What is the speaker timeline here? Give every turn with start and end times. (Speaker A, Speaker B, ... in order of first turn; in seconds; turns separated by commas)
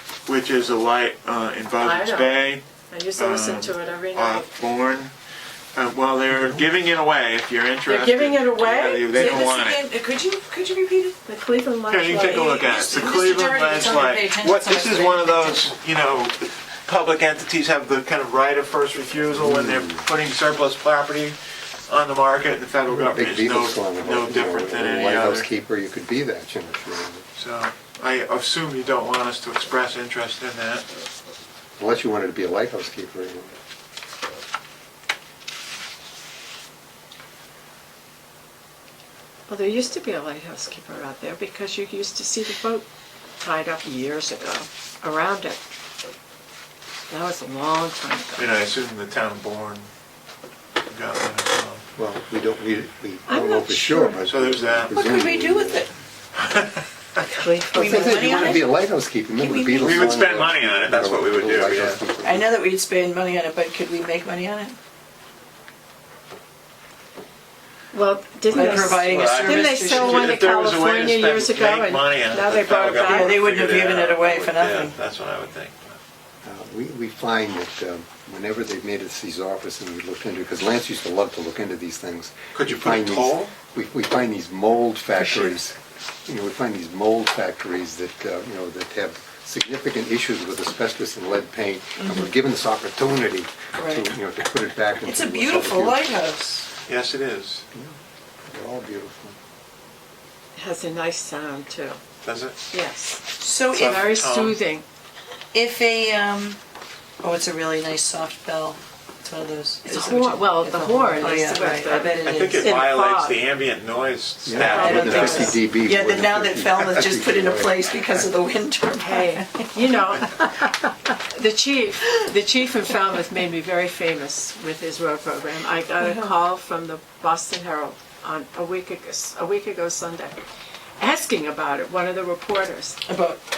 Speaker A: 0.3-2.6, Speaker B: 1.8-4.5, Speaker A: 3.2-5.1, Speaker A: 5.7-9.9, Speaker C: 6.3-6.7, Speaker B: 7.9-9.5, Speaker D: 9.1-11.2, Speaker B: 11.2-12.7, Speaker A: 11.9-21.4, Speaker D: 12.2-15.7, Speaker C: 19.4-20.1, Speaker A: 21.9-25.5, Speaker C: 22.9-27.3, Speaker A: 27.4-30.9, Speaker C: 31.8-33.5, Speaker B: 39.5-42.9, Speaker B: 43.4-45.6, Speaker B: 47.1-48.5, Speaker A: 48.4-49.9, Speaker A: 50.9-51.8, Speaker C: 52.0-55.9, Speaker B: 53.3-54.2, Speaker A: 54.3-55.0, Speaker D: 54.9-55.9, Speaker A: 56.4-56.8, Speaker B: 57.2-58.6, Speaker D: 57.7-58.6, Speaker C: 57.7-62.5, Speaker D: 59.4-60.5, Speaker A: 59.8-62.0, Speaker D: 62.2-64.8, Speaker B: 67.9-73.4, Speaker D: 68.5-70.4, Speaker A: 68.6-76.0, Speaker D: 72.9-75.0, Speaker C: 76.4-96.1, Speaker A: 82.5-83.5, Speaker D: 85.2-85.6, Speaker D: 92.0-92.3, Speaker D: 93.8-94.1, Speaker D: 95.0-96.7, Speaker A: 96.9-97.6, Speaker C: 97.7-99.4, Speaker B: 100.6-102.0, Speaker A: 102.2-102.6, Speaker B: 102.7-104.8, Speaker D: 103.4-104.1, Speaker A: 103.7-104.6, Speaker D: 105.5-106.6, Speaker D: 107.2-112.7, Speaker B: 109.8-113.4, Speaker A: 112.2-115.6, Speaker C: 114.5-118.3, Speaker D: 114.6-119.7, Speaker B: 114.7-115.5, Speaker B: 119.0-130.4, Speaker D: 126.0-126.3, Speaker B: 131.0-133.0, Speaker D: 133.1-133.4